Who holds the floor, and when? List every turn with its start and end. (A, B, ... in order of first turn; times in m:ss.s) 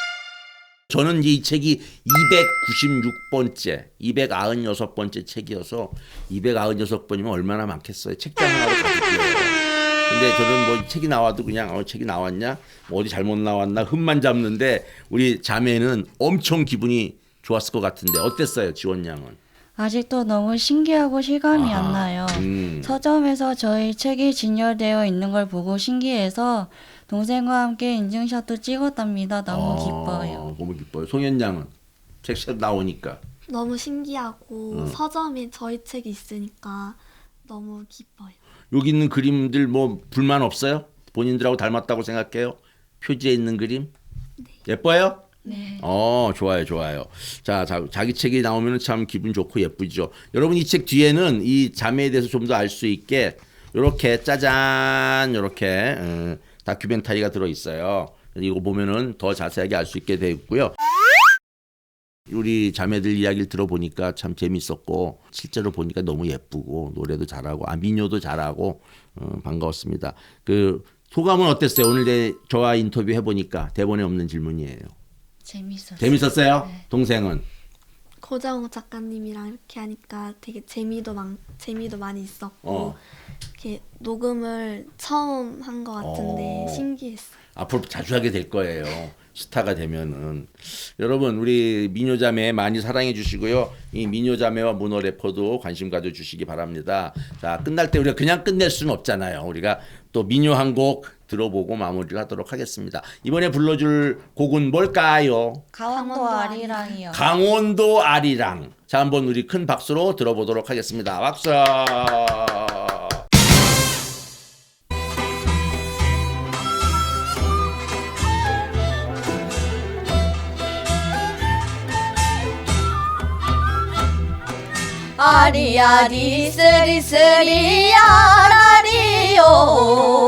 0:00.9-0:19.4 A
0:19.8-0:30.5 B
0:21.5-0:23.0 A
0:29.5-0:31.7 A
0:32.2-0:33.2 A
0:33.5-0:38.4 C
0:34.7-0:35.0 A
0:38.7-0:43.9 A
0:44.6-1:00.8 A
0:45.4-0:45.8 B
1:02.3-1:14.9 A
1:15.4-1:16.8 B
1:16.0-1:17.4 A
1:18.2-1:23.0 C
1:22.6-1:23.0 A
1:23.6-1:27.4 C
1:26.0-1:26.9 A
1:27.6-1:45.7 A
1:45.7-1:47.2 B
1:45.9-1:47.0 C
1:47.1-1:53.2 A
2:05.2-2:10.0 B